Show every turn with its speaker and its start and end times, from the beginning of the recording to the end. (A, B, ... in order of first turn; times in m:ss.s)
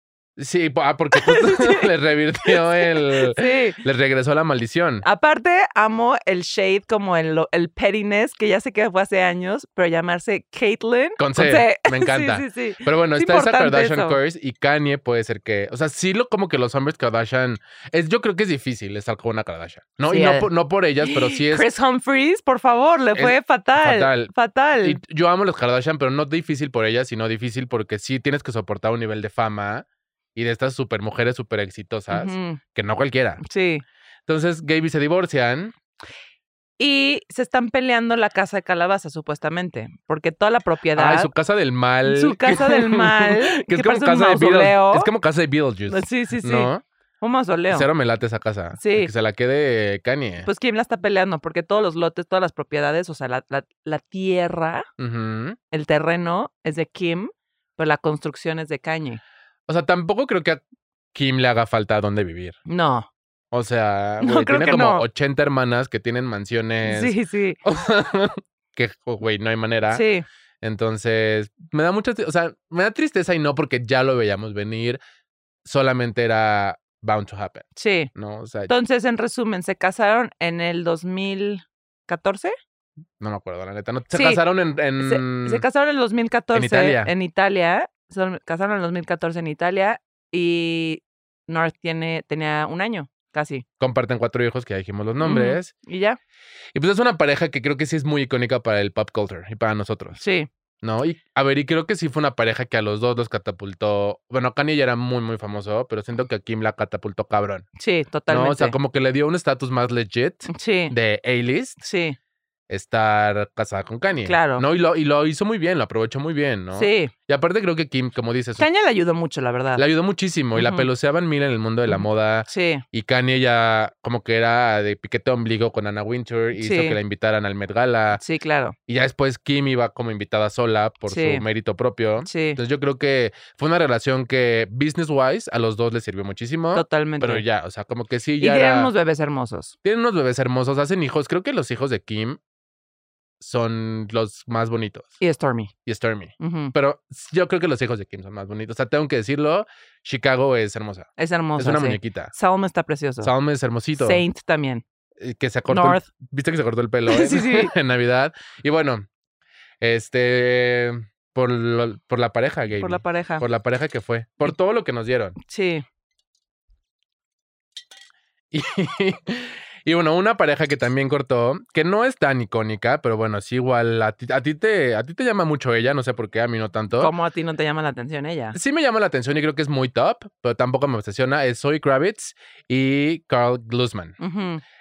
0:00.4-0:05.0 A
0:01.1-0:01.8 B
0:02.5-0:03.8 B
0:05.0-0:14.2 B
0:11.2-0:21.7 A
0:20.0-0:20.5 B
0:21.0-0:25.0 B
0:23.1-0:33.4 A
0:32.1-0:32.6 B
0:33.4-0:33.8 B
0:34.3-0:35.7 A
0:36.8-0:41.3 B
0:41.0-0:46.8 A
0:42.0-0:45.1 B
0:45.9-0:47.9 B
0:47.7-0:50.5 A
0:48.8-0:49.1 B
0:50.4-0:54.9 B
0:55.0-0:55.6 A
0:55.7-0:59.2 B
0:59.7-1:00.6 A
1:01.1-1:02.6 A
1:02.7-1:03.1 B
1:03.5-1:10.0 A
1:04.2-1:05.0 B
1:06.8-1:07.6 B
1:09.9-1:10.2 B
1:10.6-1:15.0 A
1:15.6-1:18.7 A
1:17.8-1:18.1 B
1:18.7-1:22.5 B
1:23.2-1:25.6 A
1:24.1-1:24.4 B
1:25.0-1:33.6 B
1:26.5-1:27.1 A
1:33.8-1:35.7 A
1:35.2-1:36.2 B
1:36.7-1:40.2 A
1:40.2-1:40.5 B
1:40.8-1:47.6 A
1:47.8-1:48.7 B
1:48.3-1:51.8 A
1:50.5-1:50.9 B
1:51.8-1:52.2 B
1:52.7-1:58.6 A
1:54.2-1:54.6 B
1:56.7-1:57.1 B
1:58.6-1:59.8 B
1:59.8-2:08.2 A
2:00.5-2:00.9 B
2:01.9-2:02.8 B
2:06.6-2:07.0 B
2:08.1-2:08.8 B
2:08.9-2:18.9 A
2:11.1-2:11.4 B
2:12.2-2:12.6 B
2:16.7-2:17.4 B
2:18.4-2:19.7 B
2:19.8-2:22.4 A
2:23.4-2:25.1 A
2:25.2-2:25.7 B
2:25.8-2:32.3 A
2:26.4-2:26.7 B
2:31.2-2:33.3 B
2:33.2-2:34.2 A
2:34.0-2:34.8 B
2:35.2-2:39.0 A
2:35.7-2:36.0 B
2:37.1-2:37.7 B
2:39.8-2:45.4 A
2:42.8-2:43.4 B
2:45.4-2:45.8 B
2:48.5-2:57.1 A
2:57.0-2:58.6 B
2:58.5-3:04.2 A
3:04.2-3:04.6 B